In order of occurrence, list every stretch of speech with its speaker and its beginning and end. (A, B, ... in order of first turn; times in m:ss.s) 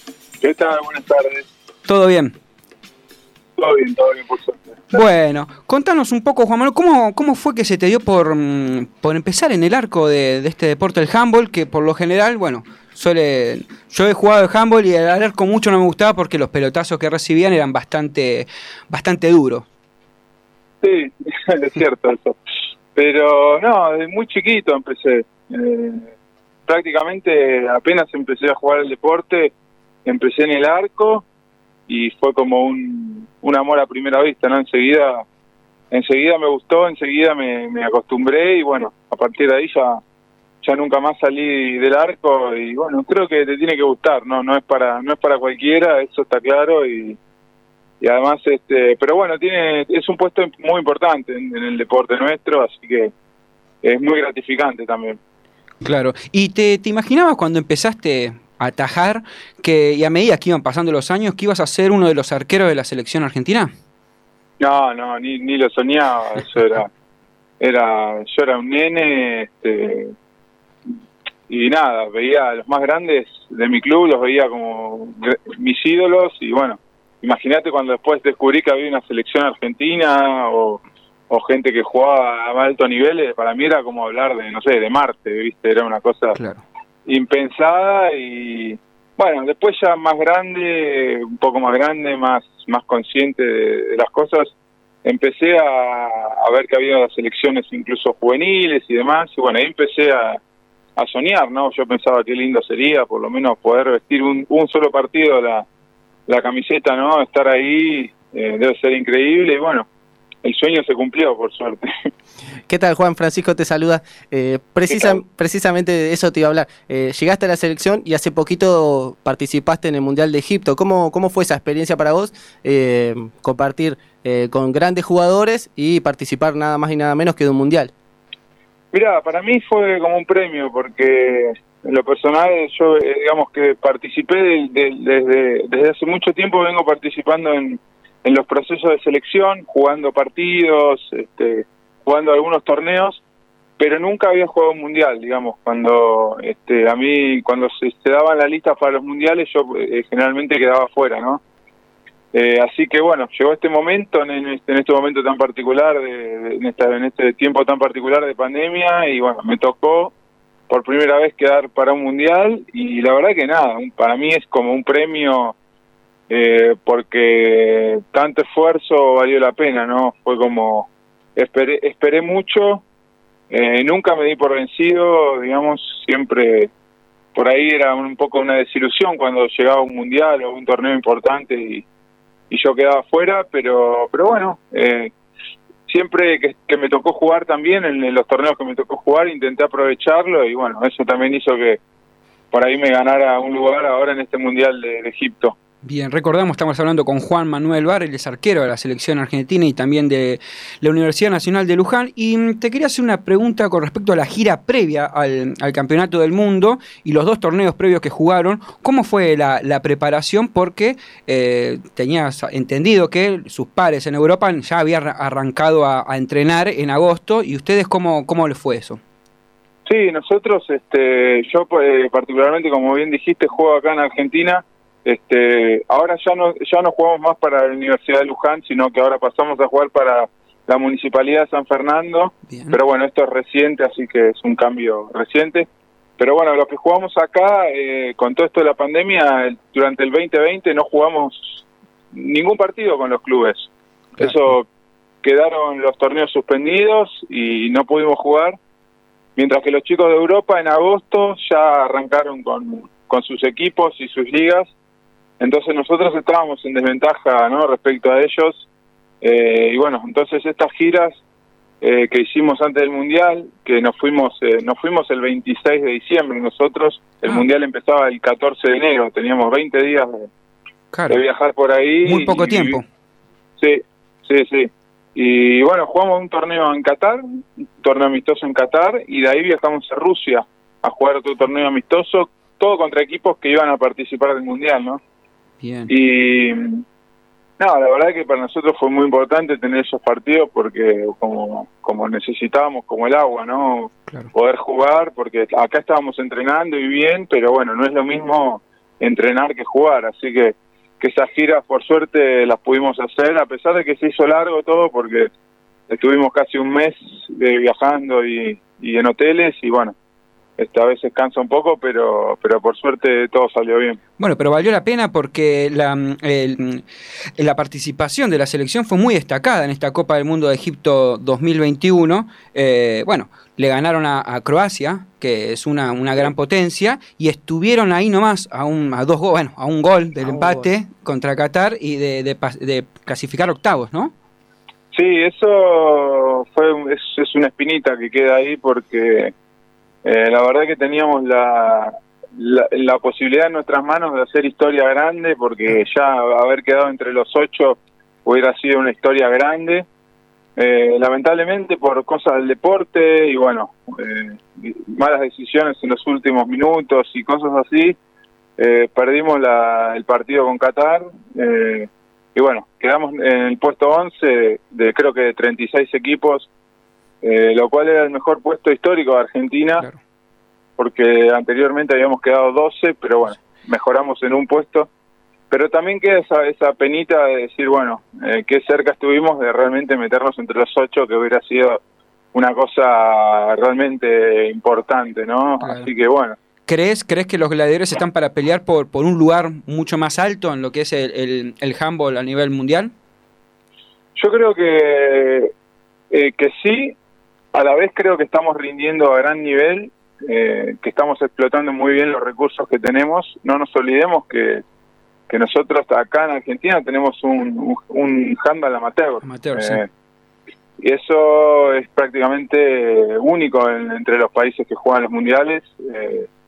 0:00.4-0:01.4 A
0:01.8-0:02.3 B
0:03.6-0:05.0 A
0:04.9-0:19.6 B
0:20.8-0:22.4 A
0:23.0-0:26.1 A
0:26.7-0:29.5 A
0:30.0-0:31.2 A
0:31.9-0:35.2 A
0:35.9-0:40.0 A
0:40.6-0:47.2 A
0:48.0-0:53.1 A
0:53.8-0:55.2 A
0:55.8-1:03.7 B
1:04.6-1:06.9 A
1:07.6-1:10.1 A
1:11.5-1:26.4 A
1:26.3-1:26.6 B
1:27.1-1:34.5 A
1:35.0-1:40.4 A
1:41.0-1:45.6 A
1:46.3-1:49.8 A
1:50.4-1:51.8 A
1:52.7-2:07.9 C
1:54.9-1:55.2 A
2:08.9-2:23.2 A
2:23.8-2:31.4 A
2:32.3-2:40.1 A
2:40.7-2:45.5 A
2:46.3-2:52.8 A
2:53.5-2:56.7 A
2:57.3-3:01.8 A
3:02.5-3:05.1 A
3:05.9-3:11.8 A
3:12.5-3:15.5 A
3:15.8-3:39.0 B
3:39.8-3:55.7 A
3:52.5-3:52.8 B
3:56.2-4:04.7 A
4:05.2-4:08.6 A
4:09.4-4:14.7 A
4:15.4-4:18.6 A
4:19.2-4:21.2 A
4:21.8-4:30.3 A
4:30.9-4:31.2 B
4:31.1-4:32.8 A
4:32.0-4:32.8 B
4:33.6-4:37.2 A
4:37.8-4:45.0 A
4:45.6-4:45.9 B
4:45.9-4:46.8 A
4:47.6-5:05.3 A
5:05.9-5:09.9 A
5:10.6-5:14.0 A
5:14.2-5:16.8 B
5:17.4-5:34.1 B
5:30.2-5:30.6 C
5:34.9-5:39.3 A
5:40.0-5:49.8 A
5:50.6-5:58.0 A
5:58.6-6:06.5 A
6:07.2-6:09.8 A
6:10.8-6:14.9 A
6:15.5-6:21.8 A
6:22.3-6:26.4 A
6:25.6-6:25.9 B
6:26.7-6:32.9 B
6:34.2-6:35.5 A
6:36.1-6:36.9 A
6:37.5-6:44.6 A
6:45.3-6:49.9 A
6:49.2-6:49.8 B
6:50.8-6:56.3 A